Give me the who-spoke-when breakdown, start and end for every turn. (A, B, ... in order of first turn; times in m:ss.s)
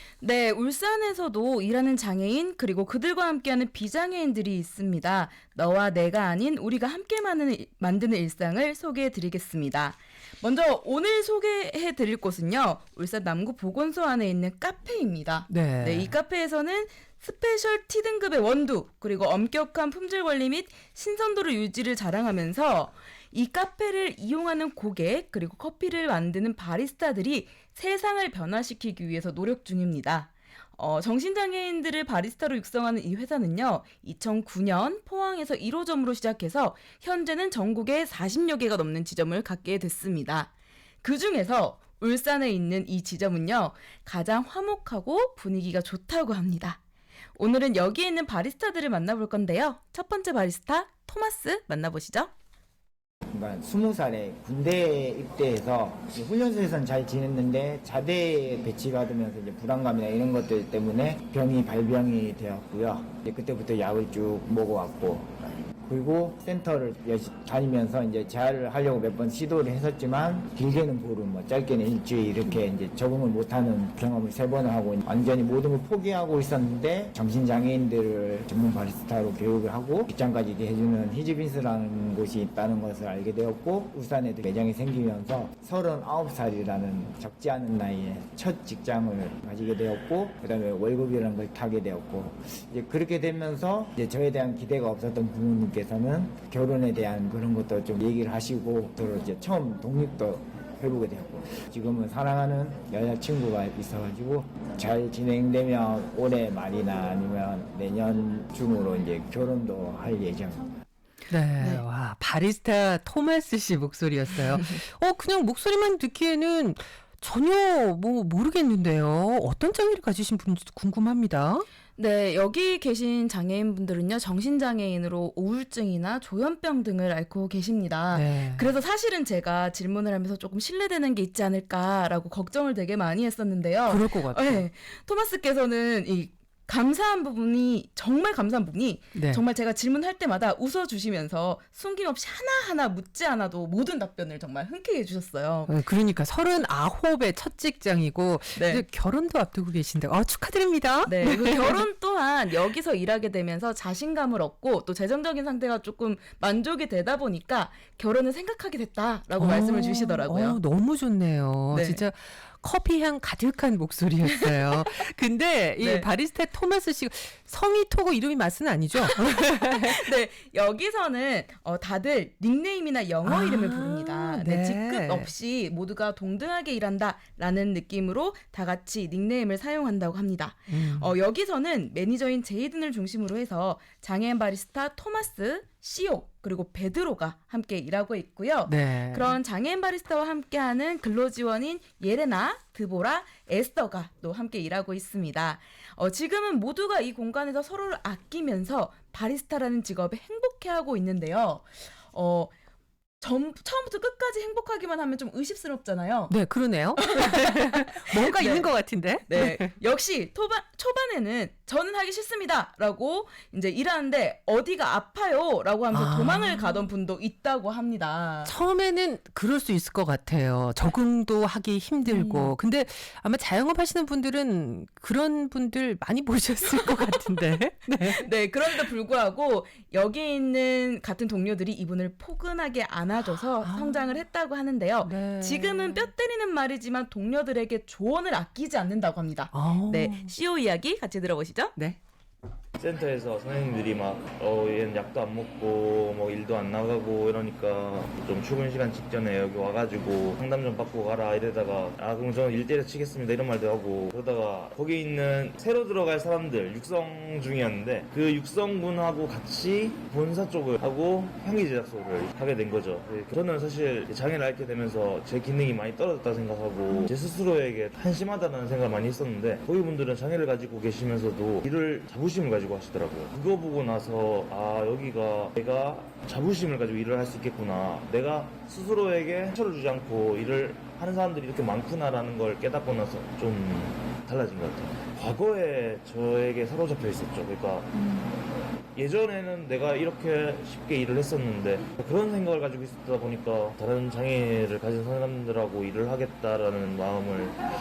0:00.2-0:40.5 A
0:15.5-0:16.1 B
0:41.0-0:46.8 A
0:47.4-0:52.3 A
0:53.3-1:05.3 C
1:05.8-1:50.7 C
1:51.3-2:01.6 B
2:02.0-2:25.7 A
2:08.1-2:08.7 B
2:13.8-2:14.6 B
2:19.1-2:19.4 B
2:25.6-2:31.8 B
2:28.6-2:28.8 A
2:31.1-2:40.6 A
2:39.4-2:50.0 B
2:41.7-2:42.0 A
2:44.5-2:44.8 A
2:45.8-2:46.1 A
2:49.9-3:22.5 A
2:53.2-2:55.3 B
3:00.7-3:01.1 B
3:08.6-3:09.3 B
3:23.2-3:26.4 A
3:26.3-3:29.7 B
3:27.0-3:28.7 A
3:29.3-3:38.5 A
3:35.9-3:36.8 B
3:38.4-3:48.8 B
3:42.0-3:42.5 A
3:48.0-4:01.7 A
3:53.6-3:54.2 B
3:55.0-3:56.1 B
3:59.5-4:00.3 B
4:02.8-4:48.2 D
4:49.0-4:57.6 D